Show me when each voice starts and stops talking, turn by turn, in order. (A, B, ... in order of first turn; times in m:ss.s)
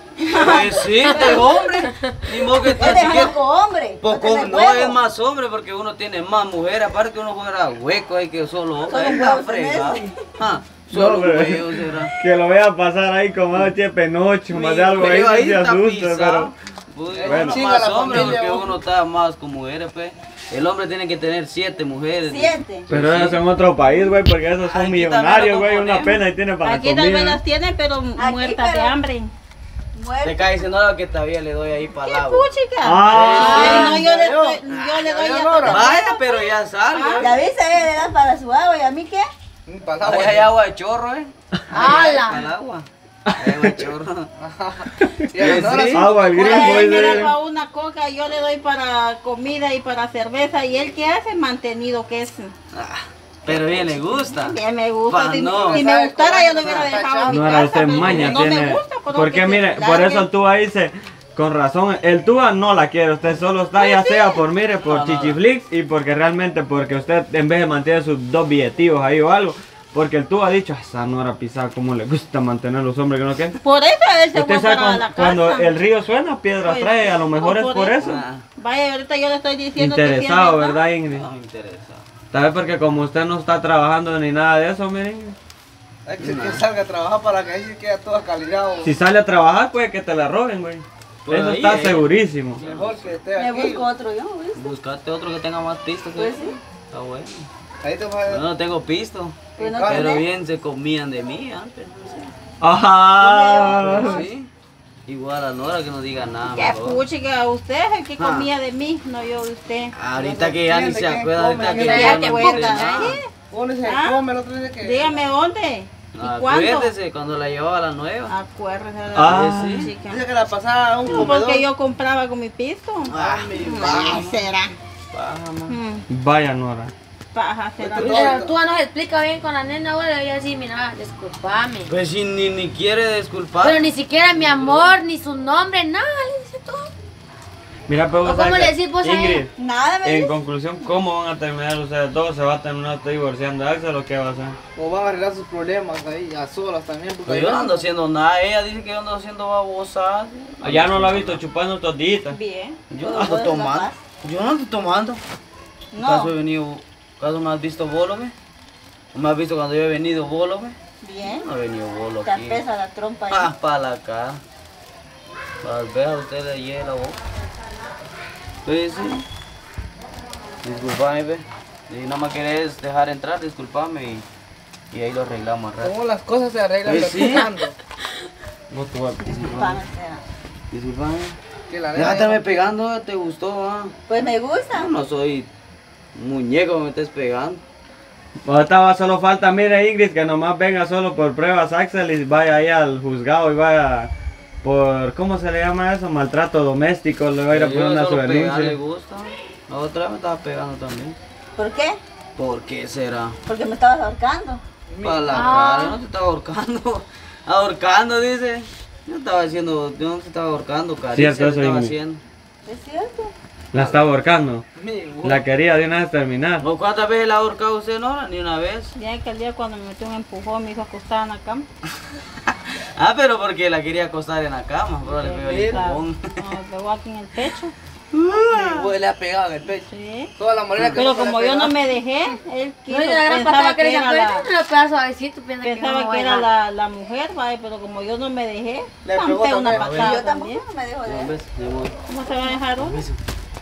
0:00.2-0:01.2 A
0:00.3-0:01.4 B
0:00.3-0:03.3 C
0:01.2-0:02.2 D
0:02.7-0:05.0 B
0:04.0-0:12.1 C
0:08.8-0:10.2 B
0:10.9-0:16.5 E
0:14.5-0:23.4 C
0:17.1-0:18.8 F
0:17.2-0:17.6 E
0:22.2-0:22.9 B
0:22.9-0:27.4 E
0:24.6-0:26.2 C
0:26.6-0:29.3 A
0:28.2-0:29.0 B
0:29.9-0:30.7 B
0:30.2-0:32.5 C
0:32.0-0:37.2 A
0:32.8-0:33.7 E
0:33.1-0:34.0 C
0:33.2-0:35.8 F
0:33.4-0:34.0 D
0:35.6-0:37.4 C
0:37.2-0:39.3 B
0:39.7-0:40.5 F
0:40.0-0:42.9 C
0:41.7-0:42.4 D
0:43.3-0:43.8 E
0:43.4-0:44.3 C
0:44.4-0:47.2 F
0:45.0-0:47.3 E
0:45.5-0:46.0 C
0:46.4-0:52.5 A
0:46.4-0:46.9 B
0:52.7-0:55.9 C
0:54.1-1:00.3 A
0:55.2-0:58.2 F
0:57.3-1:13.6 E
0:58.0-0:58.5 C
1:03.8-1:04.4 A
1:04.8-1:05.4 C
1:13.6-1:15.7 A
1:14.3-1:18.2 E
1:16.6-1:20.8 A
1:18.0-1:18.4 C
1:19.8-1:21.2 E
1:21.1-1:22.0 C
1:22.3-1:25.4 E
1:26.0-1:28.9 F
1:26.2-1:26.6 C
1:28.8-1:32.6 E
1:31.2-1:33.1 C
1:32.6-1:33.9 F
1:33.3-1:34.7 B
1:34.6-1:37.5 C
1:36.2-1:36.6 B
1:37.8-1:38.4 F
1:38.3-1:42.3 C
1:39.6-1:40.1 F
1:39.6-1:40.2 B
1:42.6-1:44.2 E
1:43.2-1:44.3 B
1:43.7-1:44.5 C
1:45.0-1:47.0 C
1:46.4-1:49.9 A
1:48.2-1:48.5 C
1:49.9-1:53.1 C
1:50.1-1:52.9 F
1:51.7-1:53.2 D
1:51.8-1:53.3 A
1:53.5-1:55.2 F
1:53.8-1:54.2 A
1:54.8-1:56.9 A
1:56.2-1:58.3 C
1:58.3-2:00.2 A
1:59.1-1:59.9 E
1:59.2-1:59.9 C
2:00.0-2:01.7 F
2:01.0-2:04.7 A
2:03.1-2:04.3 C
2:03.1-2:04.3 F
2:03.8-2:04.2 B
2:05.1-2:05.7 C
2:05.7-2:06.0 A
2:06.1-2:06.9 E
2:07.3-2:08.4 A
2:07.8-2:08.5 F
2:08.0-2:11.9 D
2:11.9-2:15.0 C
2:13.6-2:16.9 D
2:17.9-2:19.5 E
2:18.2-2:19.4 D
2:19.6-2:20.4 B
2:20.0-2:24.6 E
2:24.8-2:27.8 F
2:27.3-2:31.4 C
2:30.6-2:32.4 E
2:32.3-2:32.8 A
2:32.9-2:35.2 C
2:33.0-2:34.0 B
2:35.9-2:36.3 B
2:36.0-2:38.3 C
2:39.1-2:42.6 C
2:41.0-2:41.5 B
2:42.2-2:43.5 B
2:43.3-2:44.4 C
2:45.6-2:47.2 C
2:48.6-2:49.2 C
2:50.6-2:54.2 C
2:54.9-2:56.0 C
2:55.8-2:57.8 F
2:56.8-2:57.5 C
2:58.7-2:59.7 E
2:59.2-3:00.2 B
2:59.3-2:59.8 C
3:00.7-3:01.4 C
3:01.7-3:02.4 F
3:01.9-3:03.9 C
3:04.1-3:04.9 B
3:04.7-3:05.5 C
3:06.1-3:07.6 C
3:08.4-3:14.1 E
3:14.6-3:18.8 E
3:17.5-3:21.2 C
3:21.6-3:22.0 B
3:22.4-3:23.4 C
3:23.4-3:24.6 B
3:24.9-3:25.4 F
3:25.0-3:32.2 C
3:25.3-3:26.0 D
3:31.1-3:32.0 E
3:32.6-3:33.3 B
3:33.7-3:34.6 E
3:33.7-3:34.0 C
3:34.8-3:35.4 F
3:35.2-3:36.6 E
3:36.6-3:38.9 C
3:39.0-3:41.6 A
3:42.4-3:46.4 C
3:45.0-3:47.7 A
3:45.4-3:45.9 F
3:48.1-3:48.9 C
3:48.3-3:51.8 F
3:49.8-3:50.3 A
3:50.8-3:51.0 C
3:50.9-3:54.5 A
3:52.9-3:56.5 D
3:55.6-4:00.6 A
3:59.0-4:00.0 F
3:59.7-4:00.2 C
3:59.8-4:01.3 B
4:01.0-4:02.0 C
4:02.1-4:03.0 A
4:02.8-4:03.2 C